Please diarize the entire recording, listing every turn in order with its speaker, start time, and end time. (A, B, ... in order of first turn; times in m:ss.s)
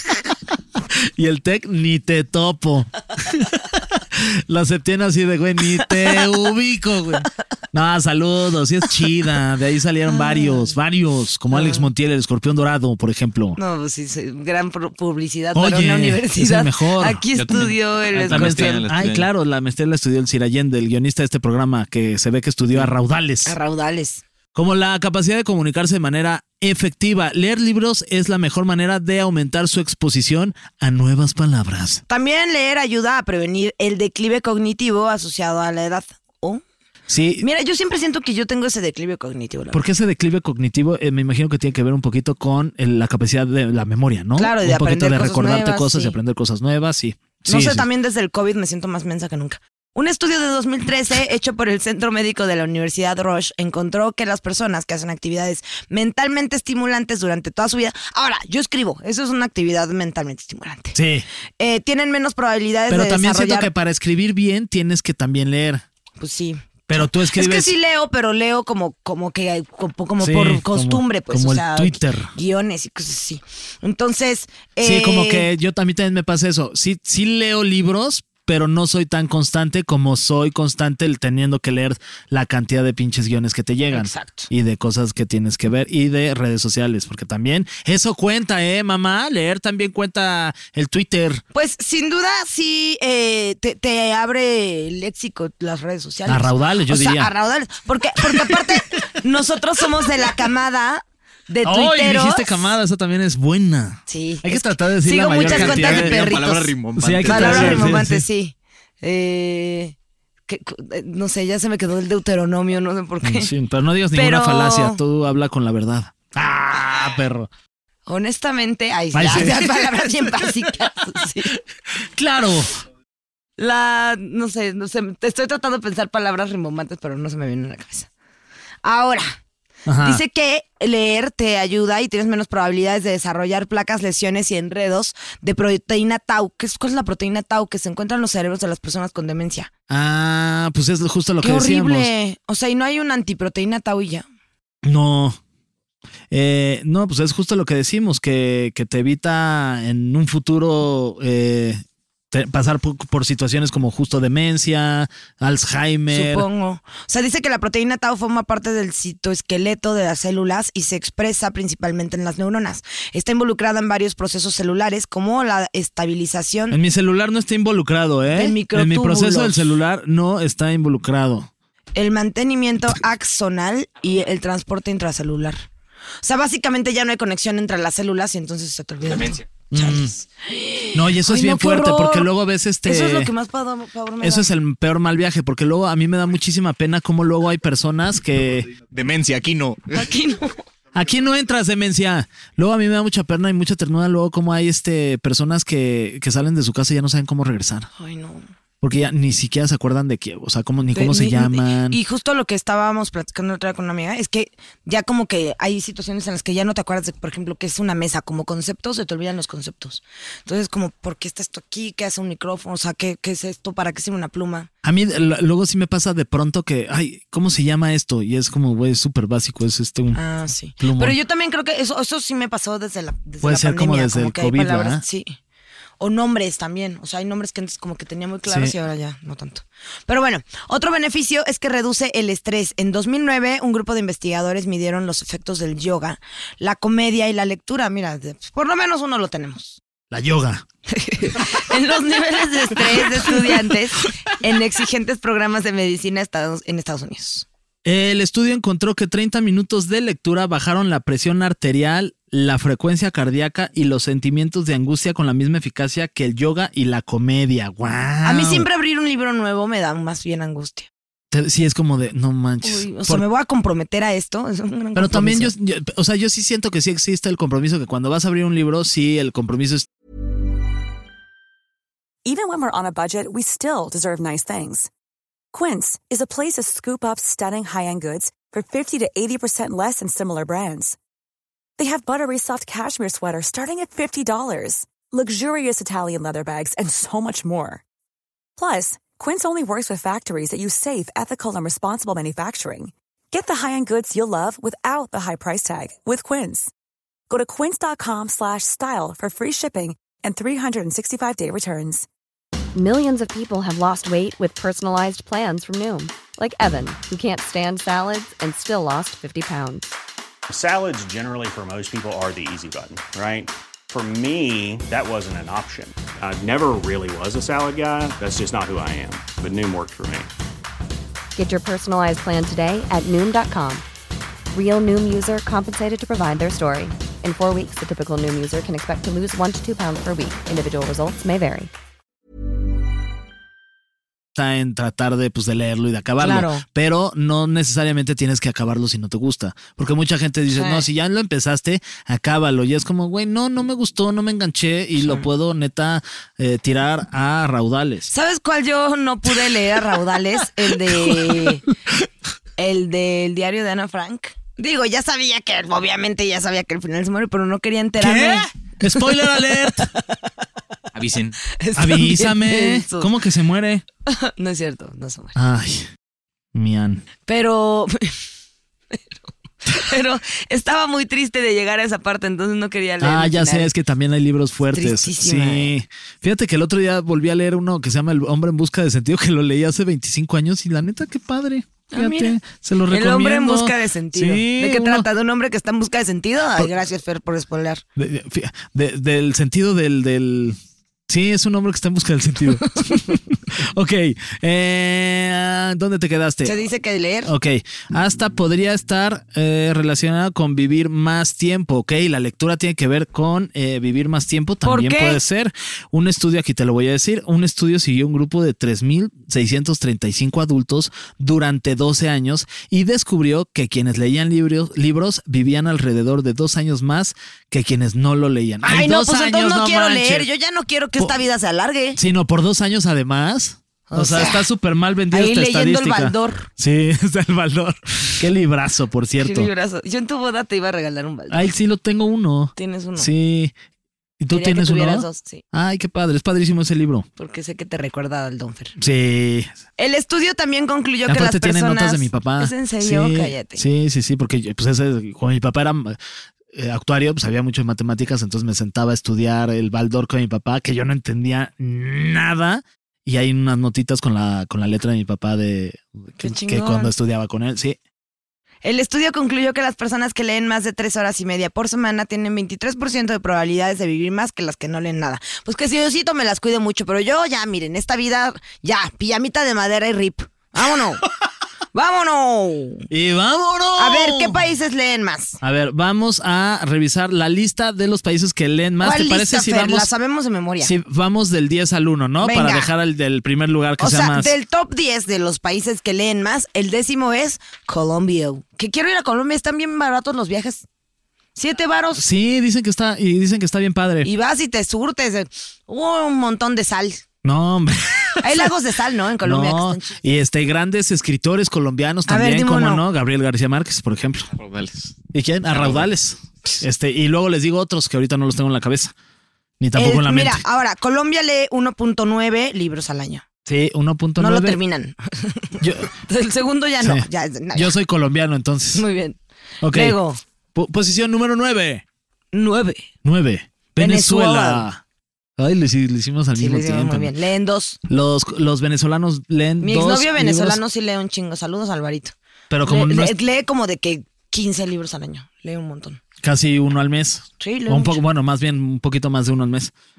0:00.9-0:13.6 A
0:10.1-0:10.8 B
0:11.5-0:11.9 B
0:13.6-0:18.8 B
0:15.5-0:17.2 A
0:17.4-0:19.3 C
0:18.3-0:23.6 A
0:23.4-0:24.2 B
0:24.5-0:32.0 A
0:32.1-0:36.6 B
0:37.1-0:37.4 A
0:37.4-0:39.8 B
0:39.7-0:47.8 A
0:44.4-0:46.2 B
0:47.4-1:01.0 B
1:00.9-1:01.2 A
1:01.6-1:03.7 B
1:02.9-1:05.8 A
1:06.2-1:15.5 B
1:06.9-1:07.7 A
1:10.2-1:12.3 A
1:14.8-1:31.4 A
1:23.9-1:24.5 B
1:31.5-1:42.7 B
1:36.3-1:37.3 A
1:38.2-1:39.0 A
1:41.6-1:46.2 A
1:44.1-1:46.7 B
1:45.4-1:48.0 C
1:47.0-1:48.2 A
1:47.3-1:50.0 B
1:50.5-1:53.5 B
1:53.2-1:57.5 A
1:54.1-1:55.0 B
1:58.1-2:01.6 B
1:59.1-2:00.5 A
2:02.0-2:02.7 A
2:03.6-2:08.1 B
2:08.8-2:09.4 B
2:09.8-2:10.2 A
2:10.0-2:19.7 B
2:19.9-2:22.1 A
2:21.4-2:24.2 B
2:24.8-2:25.4 A
2:26.3-2:36.4 A
2:36.1-2:46.8 B
2:46.7-2:51.5 A
2:48.3-2:49.6 B
2:52.0-2:55.6 B
2:56.2-3:02.3 B
2:59.1-2:59.4 C
2:59.7-3:00.1 A
3:00.9-3:03.3 A
3:02.8-3:04.5 B
3:04.2-3:08.7 A
3:08.9-3:10.0 C
3:09.9-3:10.6 B
3:10.9-3:17.9 A
3:18.0-3:18.4 B
3:18.8-3:22.0 A
3:20.9-3:34.7 B
3:34.8-3:40.2 A
3:40.1-3:45.4 B
3:40.8-3:41.2 A
3:43.4-3:45.0 A
3:46.0-3:59.8 B
3:48.4-3:48.7 A
4:00.1-4:00.6 A
4:00.9-4:07.5 B
4:07.8-4:18.7 A
4:18.2-4:20.9 B
4:21.3-4:23.2 A
4:22.6-4:25.5 B
4:24.9-4:29.9 A
4:32.2-4:34.9 D
4:35.5-4:41.0 D
4:41.8-4:47.8 D
4:48.6-4:56.7 D
4:57.3-5:02.1 D
5:02.7-5:09.9 E
5:10.5-5:20.3 F
5:21.4-5:23.8 E
5:24.5-5:31.7 E
5:34.3-5:48.1 A
5:36.2-5:36.6 B
5:40.5-5:40.8 B
5:45.0-5:45.3 B
5:48.1-5:51.6 B
5:50.8-5:51.6 A
5:52.6-6:00.0 B
5:58.0-5:59.9 A
6:00.9-6:01.4 C
6:01.5-6:03.1 B
6:01.8-6:03.8 A
6:04.1-6:05.4 B
6:05.3-6:05.9 A
6:06.5-6:07.0 A
6:07.2-6:08.2 B
6:09.7-6:13.7 B
6:13.0-6:25.1 A
6:14.7-6:15.7 B
6:21.9-6:22.4 B
6:22.9-6:27.8 B
6:28.0-6:30.6 A
6:31.1-6:36.6 A
6:36.4-6:37.3 B
6:37.2-7:00.3 A
6:44.6-6:45.2 B
6:58.6-7:02.0 B
7:02.0-7:09.5 A
7:03.9-7:04.5 B
7:05.1-7:06.5 B
7:09.2-7:11.5 B
7:11.3-7:13.5 A
7:12.6-7:13.1 B
7:14.2-7:17.1 A
7:14.3-7:15.4 B
7:17.2-7:18.8 B
7:18.8-7:19.5 A
7:19.8-7:23.6 B
7:21.1-7:26.0 A
7:26.5-7:37.8 A
7:36.2-7:36.9 B
7:38.6-7:51.0 B
7:51.7-7:52.9 B
7:52.9-7:54.4 A
7:53.8-7:55.4 B
7:55.4-7:59.9 A
7:58.8-8:00.7 B
8:00.6-8:04.3 A
8:02.2-8:02.7 B
8:03.8-8:10.6 B
8:11.4-8:12.0 B
8:12.0-8:14.1 A
8:14.0-8:17.0 B
8:17.2-8:18.5 A
8:18.2-8:20.0 B
8:19.2-8:24.3 A
8:22.1-8:22.8 B
8:24.3-8:25.0 C
8:25.1-8:28.9 A
8:25.5-8:25.9 C
8:29.6-8:30.4 A
8:29.7-8:33.2 B
8:33.4-8:34.6 A
8:34.2-8:37.7 B
8:35.6-8:35.9 A
8:36.8-8:38.8 A
8:38.7-8:39.2 B
8:39.6-8:40.0 A
8:39.7-8:40.2 B
8:40.5-8:41.8 A
8:42.3-8:42.9 B
8:43.0-8:44.8 A
8:43.8-8:44.7 B
8:45.4-8:47.1 A
8:46.4-8:47.8 B
8:47.9-8:50.6 A
8:49.6-8:56.0 B
8:52.5-8:53.2 A
8:56.2-8:59.7 A
8:57.4-8:58.0 B